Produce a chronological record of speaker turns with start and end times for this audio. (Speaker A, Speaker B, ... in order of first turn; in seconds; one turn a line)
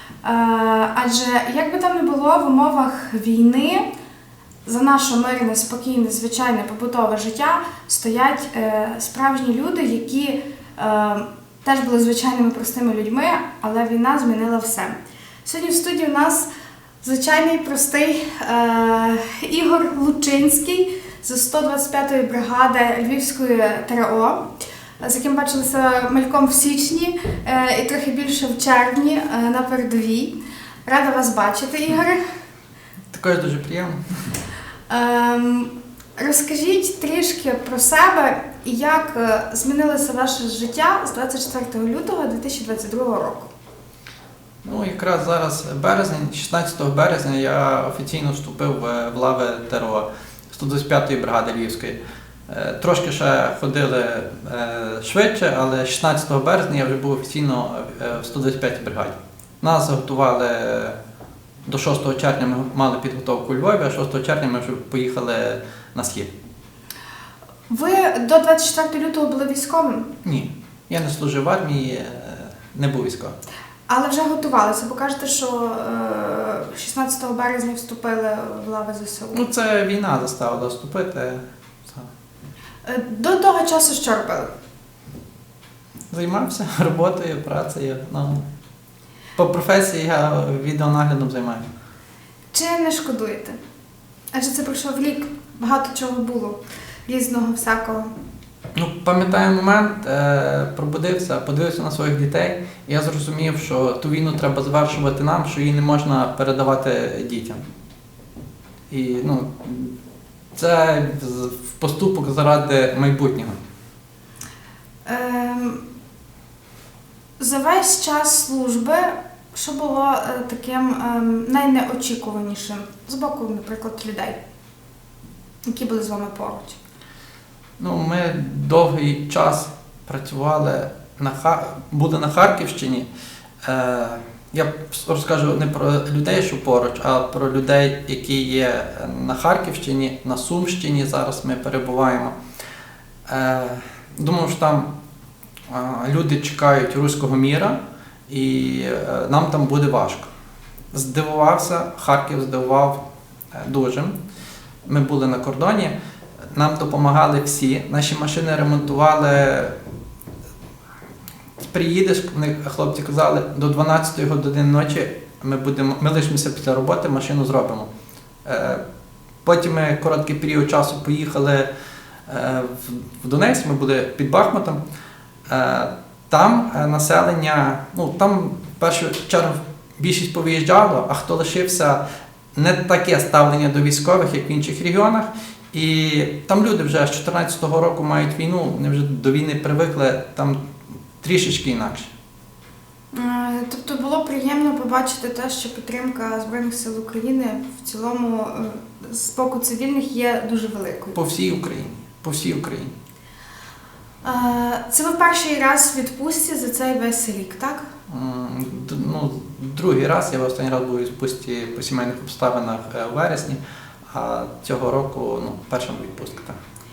Speaker A: 0.2-3.9
Speaker A: 4.6-16.5
Speaker A: 17.0-24.5
Speaker A: 25.0-30.3
Speaker A: 30.9-32.2
Speaker B: 33.1-34.0
Speaker A: 34.9-43.5
Speaker B: 44.6-61.0
Speaker B: 61.7-66.3
Speaker A: 67.7-70.1
Speaker B: 70.2-73.4
Speaker A: 73.9-79.4
Speaker B: 79.3-82.1
Speaker A: 82.8-84.5
Speaker B: 86.1-88.4
Speaker B: 89.3-91.7
Speaker A: 92.5-93.6
Speaker A: 94.3-98.1
Speaker B: 98.7-107.6
Speaker B: 108.9-109.9
Speaker B: 110.5-113.6
Speaker A: 115.0-115.8
Speaker A: 117.4-124.4
Speaker A: 125.7-126.8
Speaker B: 127.8-133.1
Speaker B: 133.6-142.3
Speaker B: 143.3-144.9
Speaker B: 145.7-150.3
Speaker B: 150.9-153.0
Speaker B: 153.5-154.1
Speaker B: 154.8-155.9
Speaker B: 156.5-159.8
Speaker B: 161.6-167.9
Speaker B: 168.4-168.8
Speaker B: 169.4-171.7
Speaker B: 172.3-174.8
Speaker B: 175.5-182.0
Speaker B: 182.5-190.6
Speaker B: 191.2-192.1
Speaker A: 193.1-201.2
Speaker B: 201.1-202.9
Speaker A: 204.2-207.9
Speaker B: 208.1-213.6
Speaker B: 214.1-216.6